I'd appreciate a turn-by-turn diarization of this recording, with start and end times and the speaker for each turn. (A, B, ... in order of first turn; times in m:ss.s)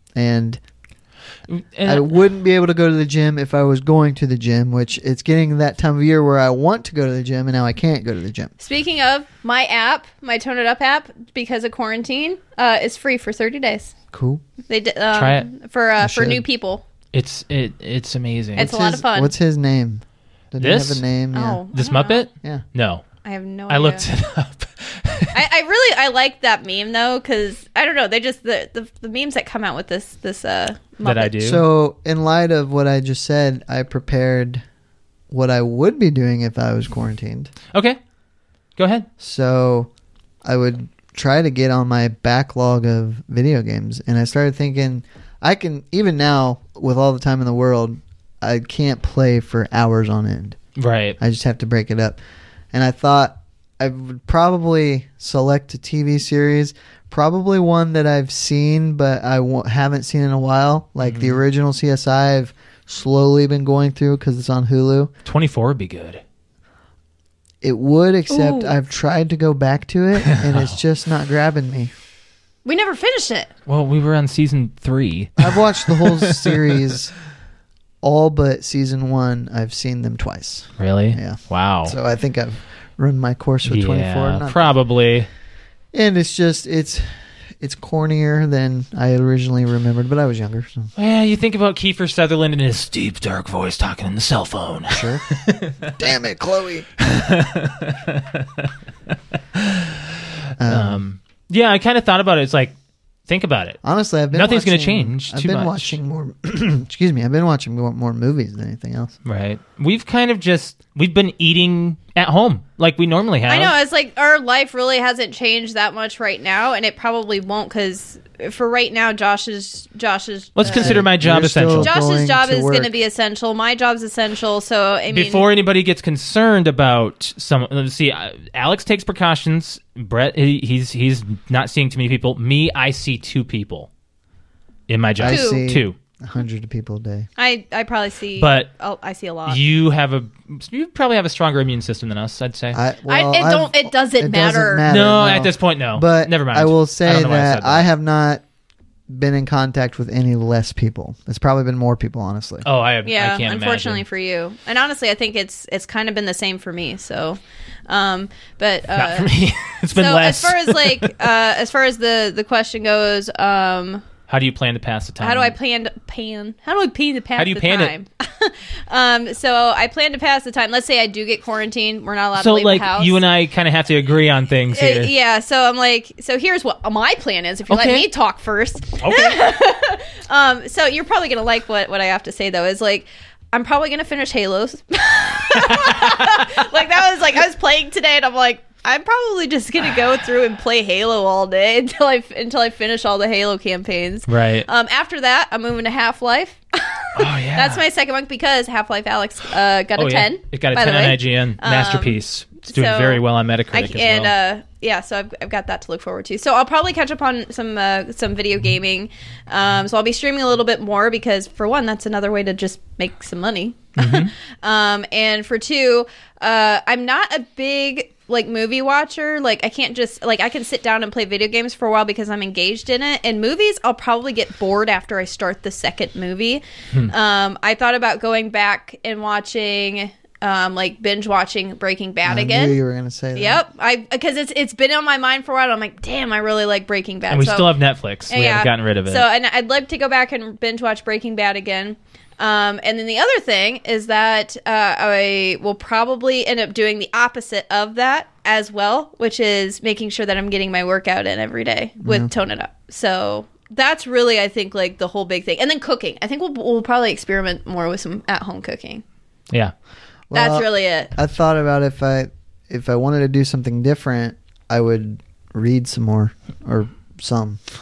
0:00.2-0:00.6 A
0:01.5-0:02.2 B
0:01.9-0:08.5 A
0:08.6-0:13.9 C
0:14.1-0:14.4 A
0:14.7-0:16.8 C
0:15.1-0:15.5 B
0:16.0-0:16.4 A
0:17.1-0:18.7 B
0:18.6-0:19.3 C
0:18.6-0:21.6 A
0:20.6-0:21.0 B
0:21.3-0:22.3 C
0:21.7-0:23.0 B
0:23.2-0:24.1 C
0:23.7-0:25.4 B
0:25.3-0:31.4 C
0:31.0-0:31.6 B
0:31.4-0:34.6 A
0:35.3-0:37.5 A
0:37.7-0:38.0 B
0:38.8-0:39.1 B
0:39.2-0:39.9 A
0:40.4-0:50.6 A
0:50.8-0:51.2 B
0:51.2-0:52.2 A
0:52.7-1:05.1 A
1:01.0-1:01.4 B
1:05.2-1:06.2 B
1:07.6-1:11.9 A
1:08.3-1:08.7 C
1:10.3-1:10.8 B
1:12.6-1:13.5 C
1:13.7-1:16.6 B
1:15.4-1:17.1 A
1:18.0-1:24.7 A
1:20.8-1:22.0 B
1:23.7-1:25.3 B
1:25.9-1:30.9 A
1:31.0-1:36.0 B
1:34.9-1:35.2 A
1:35.9-1:36.9 A
1:37.0-1:38.7 B
1:39.4-1:40.0 B
1:40.6-1:41.0 A
1:40.7-1:42.8 B
1:43.3-1:43.8 B
1:43.8-1:49.2 A
1:44.3-1:46.0 B
1:49.2-1:53.7 B
1:53.5-2:01.0 C
2:00.6-2:01.9 B
2:00.7-2:02.9 A
2:01.8-2:05.5 C
2:05.1-2:13.9 B
2:14.9-2:16.0 B
2:15.2-2:17.3 A
2:15.3-2:15.7 C
2:17.4-2:19.6 C
2:18.4-2:18.7 B
2:19.5-2:22.8 B
2:22.7-2:28.4 A
2:23.1-2:24.9 C
2:24.9-2:27.9 B
2:29.1-2:32.7 A
2:32.6-2:34.0 B
2:33.1-2:39.3 C
2:38.9-2:41.2 B
2:40.0-2:44.0 C
2:44.3-2:45.6 B
2:45.2-2:53.2 C
2:47.4-2:47.9 B
2:52.4-2:55.1 B
2:54.7-3:52.8 C
2:57.7-2:58.1 B
2:59.0-2:59.4 B
3:05.5-3:06.4 B
3:14.3-3:14.7 B
3:17.2-3:17.8 B
3:20.0-3:24.3 B
3:34.0-3:34.3 B
3:52.2-3:53.6 A
3:53.4-3:57.8 C
3:57.3-3:59.2 B
3:58.3-4:19.0 C
4:12.0-4:12.3 A
4:20.3-4:27.6 A
4:20.3-4:21.1 C